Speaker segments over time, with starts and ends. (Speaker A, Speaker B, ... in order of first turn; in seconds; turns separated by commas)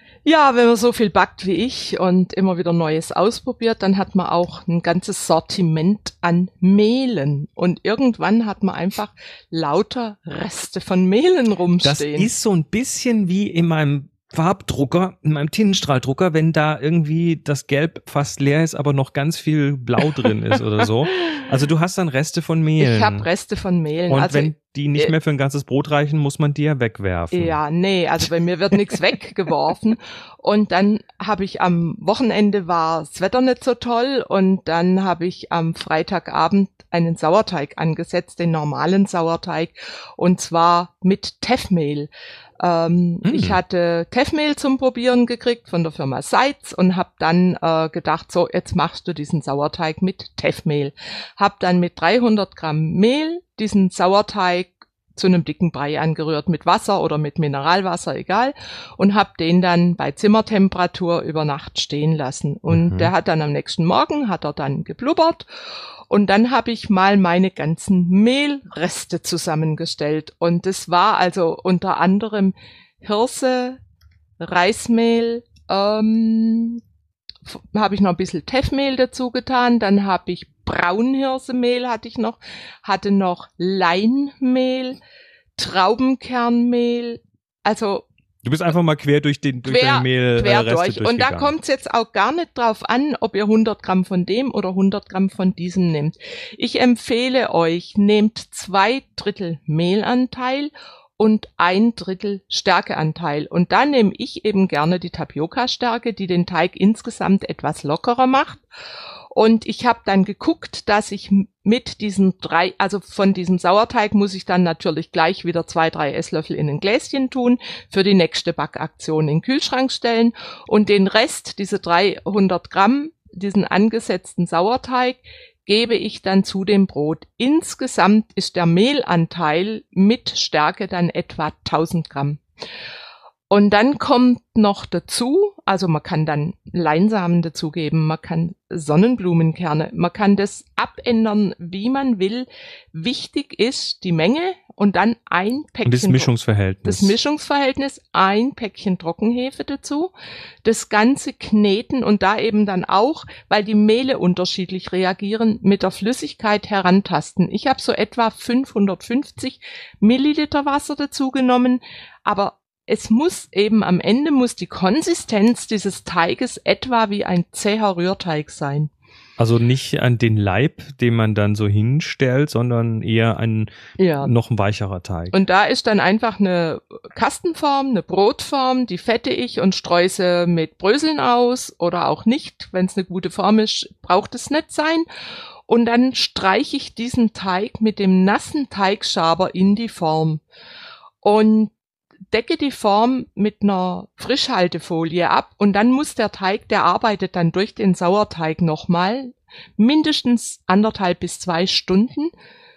Speaker A: 0.2-12.3, Speaker B: 11.8-23.3, Speaker A: 22.8-25.1, Speaker B: 24.1-27.6, Speaker A: 27.3-65.5, Speaker B: 43.2-43.6, Speaker B: 62.7-63.1, Speaker A: 66.1-73.8, Speaker A: 74.4-76.8, Speaker A: 77.5-85.0, Speaker A: 85.6-88.1, Speaker B: 88.4-91.5, Speaker A: 89.7-108.7, Speaker A: 109.3-132.4, Speaker A: 133.5-146.3, Speaker B: 145.8-147.1, Speaker A: 146.8-150.1, Speaker A: 150.6-168.9, Speaker B: 169.4-175.3, Speaker A: 174.0-174.3, Speaker A: 175.3-185.1, Speaker A: 185.7-190.4, Speaker A: 191.2-191.7, Speaker A: 192.3-202.3